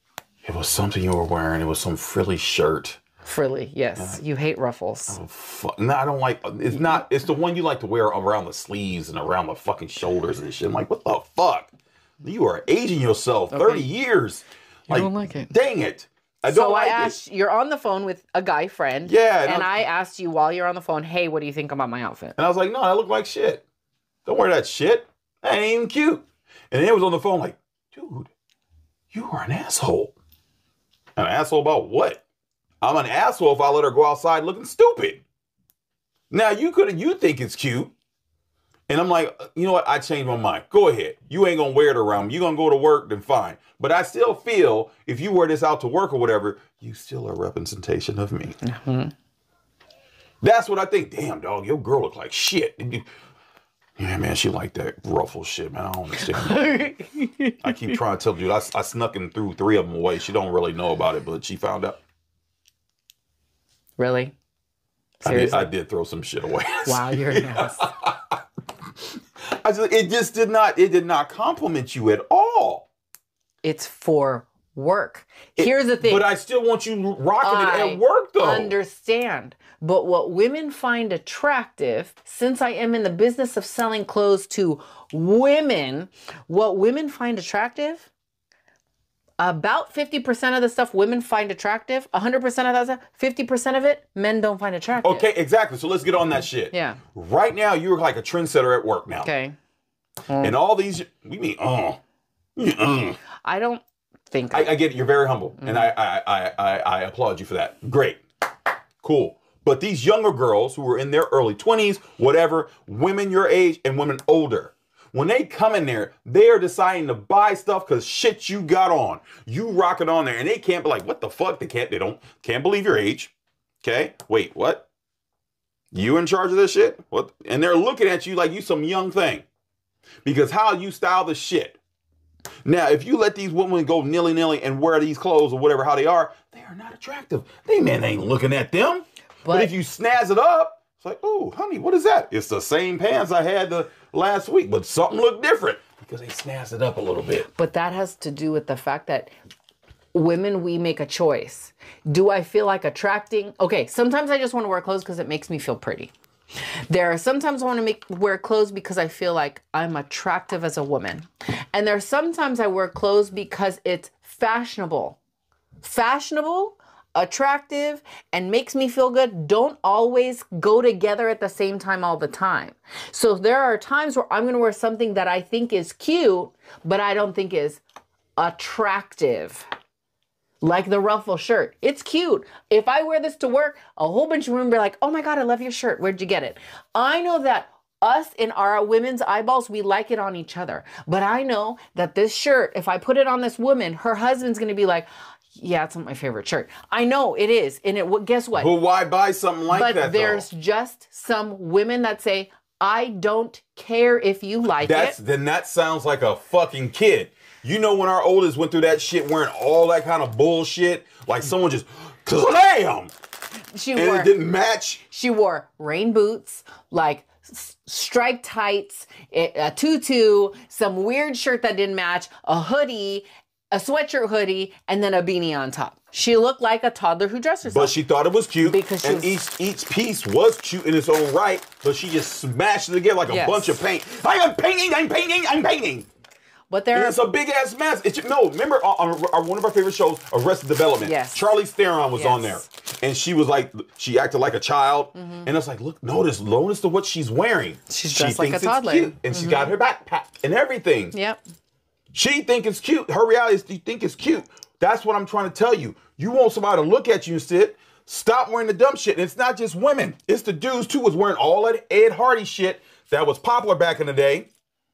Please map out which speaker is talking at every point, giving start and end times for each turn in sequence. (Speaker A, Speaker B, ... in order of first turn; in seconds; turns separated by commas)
Speaker A: 0.4-3.0, Speaker B: 3.2-5.2, Speaker A: 5.1-11.7, Speaker B: 6.7-7.0, Speaker A: 12.2-17.2, Speaker B: 13.5-13.9, Speaker B: 14.9-15.5, Speaker B: 16.4-22.4, Speaker A: 19.0-19.8, Speaker A: 22.4-23.6, Speaker A: 24.2-28.3, Speaker A: 29.1-30.1, Speaker A: 31.1-32.2, Speaker A: 32.8-35.2, Speaker A: 36.3-37.9, Speaker A: 38.9-48.6, Speaker B: 48.6-49.1, Speaker A: 50.4-53.0, Speaker A: 54.0-56.8, Speaker B: 56.1-58.0, Speaker A: 57.6-62.0, Speaker B: 64.0-64.3, Speaker A: 65.2-68.4, Speaker B: 65.2-65.7, Speaker B: 66.8-67.8, Speaker A: 69.5-72.9, Speaker B: 73.6-76.2, Speaker A: 75.5-78.7, Speaker B: 77.4-88.1, Speaker B: 89.4-95.2, Speaker A: 95.0-99.3, Speaker B: 96.7-97.0, Speaker B: 99.2-99.5, Speaker B: 100.3-100.6, Speaker A: 100.4-102.0, Speaker A: 102.5-103.2, Speaker B: 103.4-104.7, Speaker A: 104.5-108.2, Speaker B: 105.6-105.9, Speaker A: 109.0-124.9, Speaker A: 125.9-129.4, Speaker A: 130.2-131.8, Speaker A: 132.6-147.5, Speaker B: 139.4-139.7, Speaker B: 147.4-149.3, Speaker B: 150.1-156.1, Speaker B: 156.9-165.2, Speaker B: 165.8-177.8, Speaker B: 178.4-179.7, Speaker B: 180.6-198.7, Speaker A: 198.6-200.4, Speaker B: 199.7-205.2, Speaker A: 204.8-213.1, Speaker B: 213.7-214.3, Speaker A: 213.9-215.0, Speaker B: 215.1-227.9, Speaker A: 227.6-236.1, Speaker B: 228.6-229.4, Speaker B: 233.2-233.8, Speaker B: 236.7-237.2, Speaker A: 236.9-251.1, Speaker B: 241.0-241.4, Speaker B: 242.1-242.6, Speaker B: 245.1-245.5, Speaker B: 247.9-249.7, Speaker B: 251.1-251.4, Speaker A: 252.1-264.5